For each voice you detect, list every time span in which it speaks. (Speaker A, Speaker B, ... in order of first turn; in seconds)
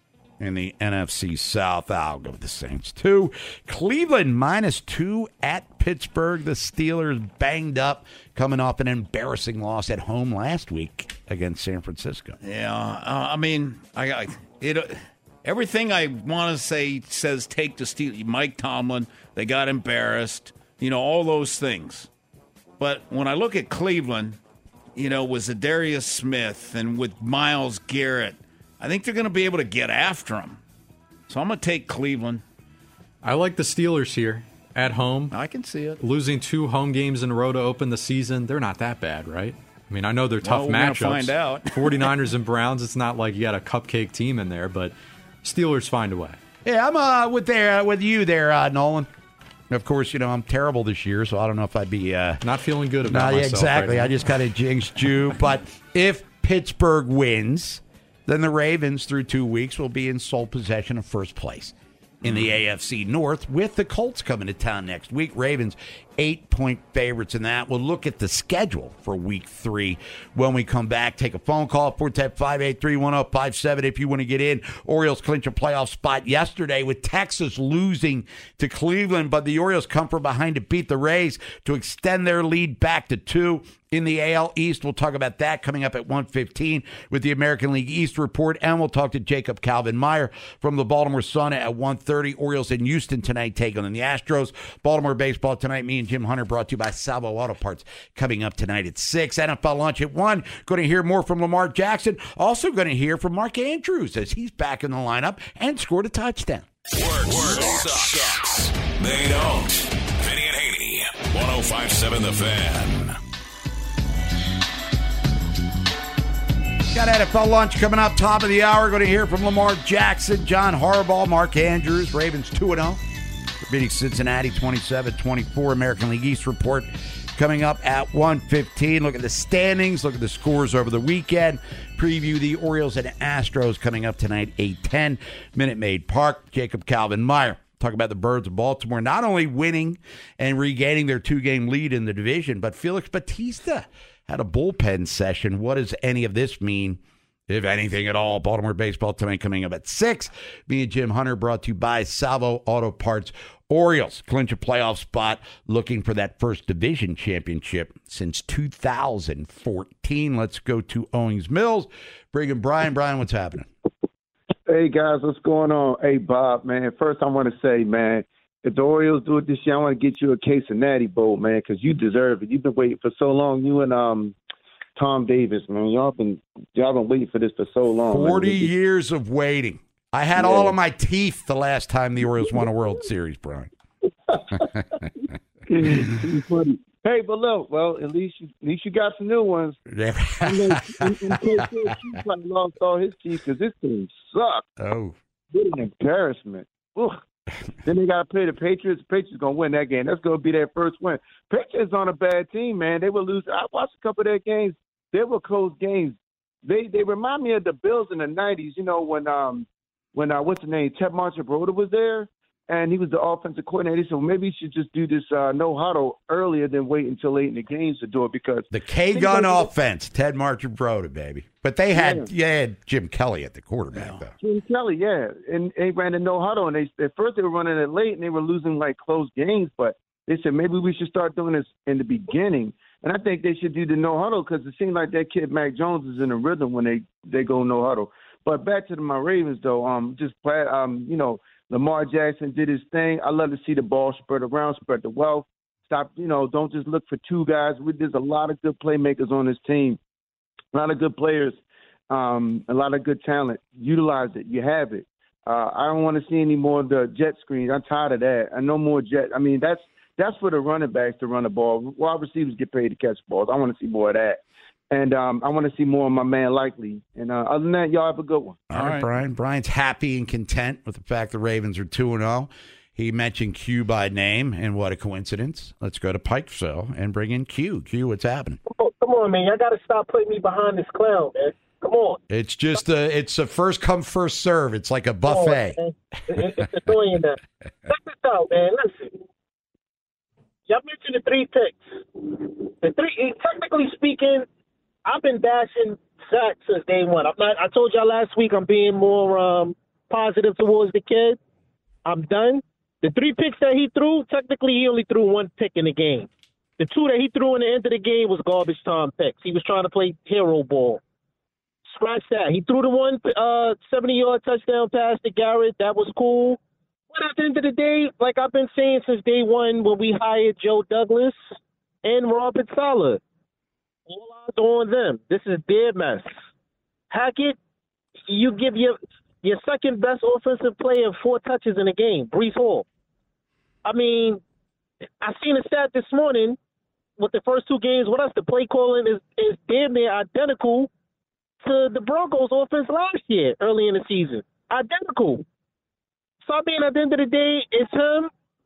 Speaker A: 0.4-12.4, 46.6-49.1, 49.7-52.4, 53.0-106.7, 107.2-108.4, 116.9-123.0, 123.7-163.7, 178.0-183.7, 184.5-185.1, 189.9-192.1, 194.8-195.2, 218.7-224.3, 268.7-278.6, 282.3-285.8, 286.3-286.6
Speaker B: 12.4-22.1, 22.8-24.4, 24.9-30.6, 31.3-32.4, 35.3-36.0, 40.4-42.1, 268.7-269.1
Speaker C: 33.2-35.3, 36.0-46.4, 52.4-54.2
Speaker D: 106.9-113.1
Speaker E: 164.7-174.3, 174.9-178.7, 180.3-180.8, 182.2-182.7, 184.3-184.7, 185.7-189.8, 190.4-194.7, 195.5-197.2, 197.8-219.7, 221.9-222.3, 224.4-250.0, 250.7-251.6, 252.1-268.6
Speaker F: 278.7-282.2, 285.2-289.2, 290.7-294.4, 295.1-301.4, 302.1-311.0, 311.9-316.6, 317.1-321.4, 322.0-323.2, 324.1-326.3, 327.1-327.6, 328.3-332.8, 333.8-334.4, 335.2-336.6, 337.2-340.9, 341.6-345.4, 346.4-348.3